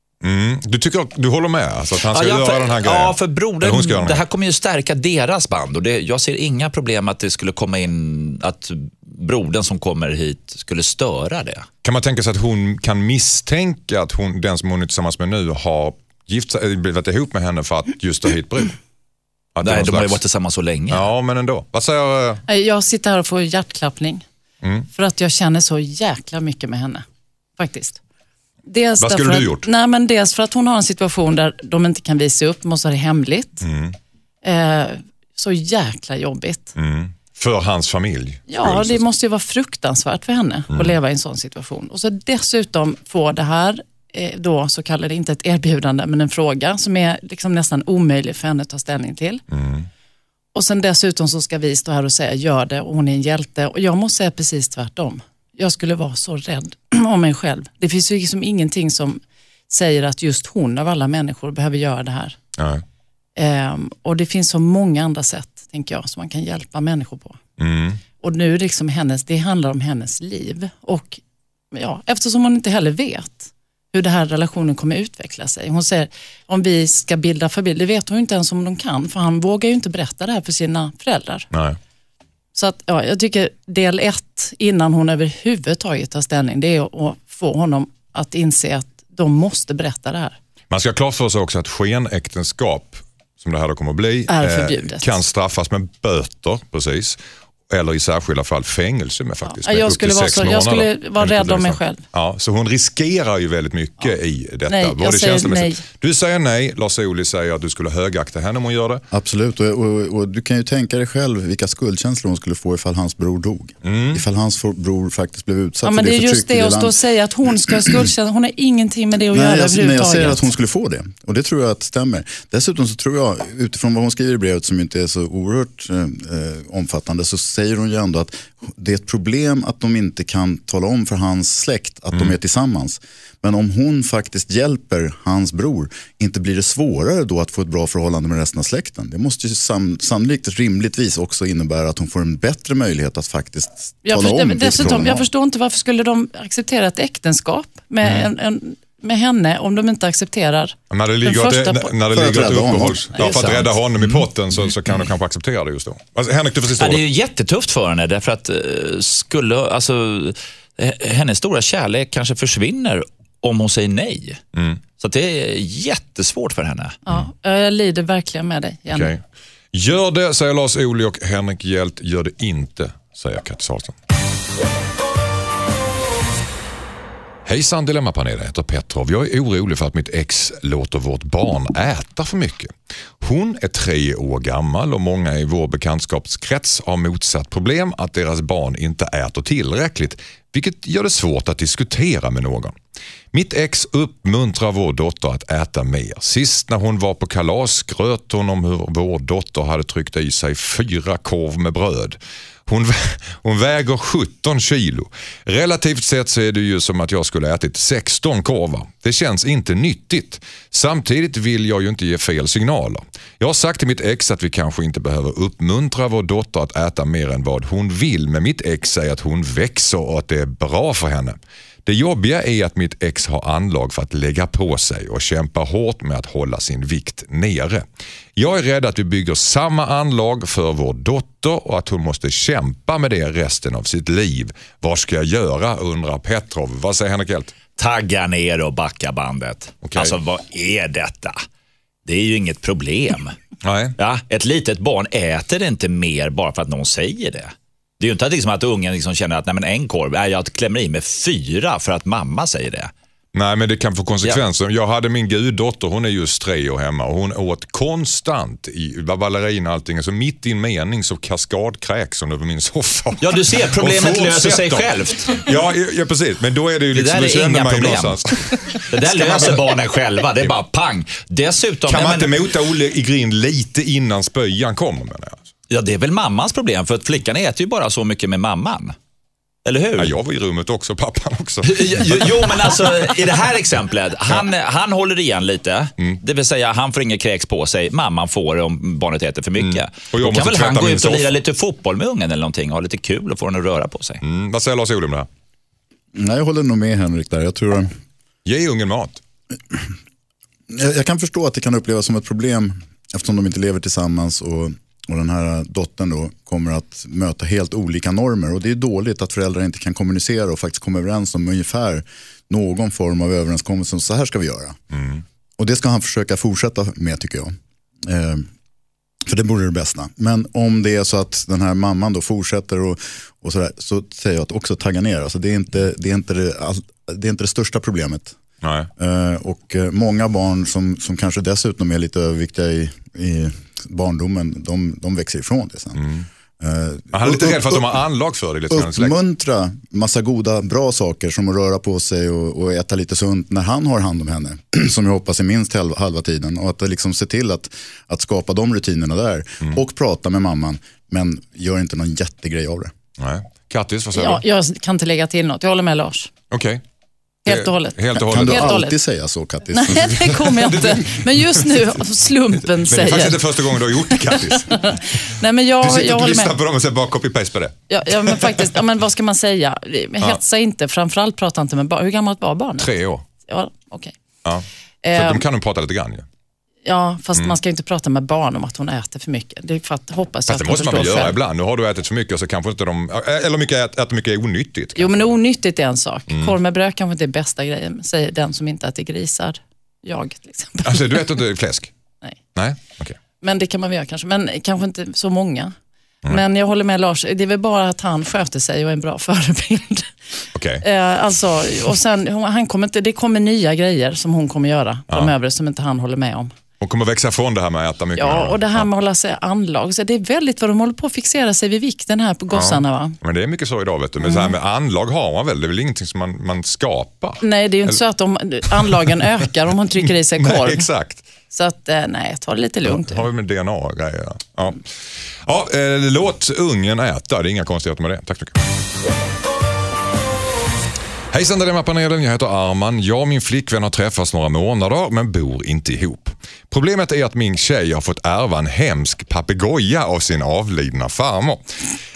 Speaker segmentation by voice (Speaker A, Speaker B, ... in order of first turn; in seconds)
Speaker A: 0.2-4.2, 11.8-18.7, 19.6-20.2, 20.9-22.4, 29.0-29.7, 33.6-34.0, 36.8-39.0, 49.5-49.9, 62.6-62.8, 67.6-68.0, 81.5-81.8, 90.7-97.2, 97.7-109.0, 113.8-114.2, 150.9-157.0, 164.6-164.8, 168.9-169.2, 169.7-173.9, 177.4-192.8, 193.3-227.8, 228.4-237.5, 239.8-240.2, 243.6-243.9, 253.3-269.7, 271.9-275.4, 280.0-282.3, 289.6-291.3, 294.2-295.3, 298.4-299.2, 314.9-315.2, 328.6-328.9, 336.0-336.2, 337.1-339.1, 353.2-354.4, 356.5-356.8, 357.4-358.8, 360.4-361.6, 362.7-365.0, 365.8-368.6, 372.8-373.2, 374.4-376.3, 380.5-385.3, 386.3-386.6, 390.8-391.9, 392.6-393.2, 400.6-400.8, 406.8-408.9, 412.5-418.0, 420.4-421.2, 422.8-424.8, 425.4-428.6, 431.3-441.6
Speaker B: 2.0-11.7, 19.6-21.1, 156.8-164.4, 165.0-167.0, 237.8-241.4, 242.1-243.4, 244.0-252.9, 263.2-265.5, 266.9-268.2, 268.7-272.4, 275.7-278.9, 279.6-280.1, 281.6-294.2
Speaker C: 22.5-24.2, 24.9-27.0, 27.6-28.0, 28.7-33.6, 34.4-36.7, 38.5-49.4, 50.5-62.4, 63.4-67.4, 68.2-71.2, 71.7-81.5, 82.5-90.4, 94.3-95.2, 99.4-102.0, 104.7-105.8, 115.8-120.4, 144.1-151.9, 167.1-169.1, 354.1-356.3, 357.4-359.0, 359.7-366.6, 367.9-372.9, 373.4-374.2, 375.0-375.4, 376.8-381.4, 384.9-391.3, 393.4-395.7, 396.3-400.1, 400.8-406.5, 408.2-413.2, 414.2-414.6, 417.4-420.9, 421.5-423.3
Speaker D: 109.1-117.0, 119.3-145.3, 152.1-153.7, 296.1-297.9, 300.7-314.8, 315.6-318.5, 319.2-328.4, 329.0-336.1, 336.6-338.0, 338.7-352.9, 358.1-360.4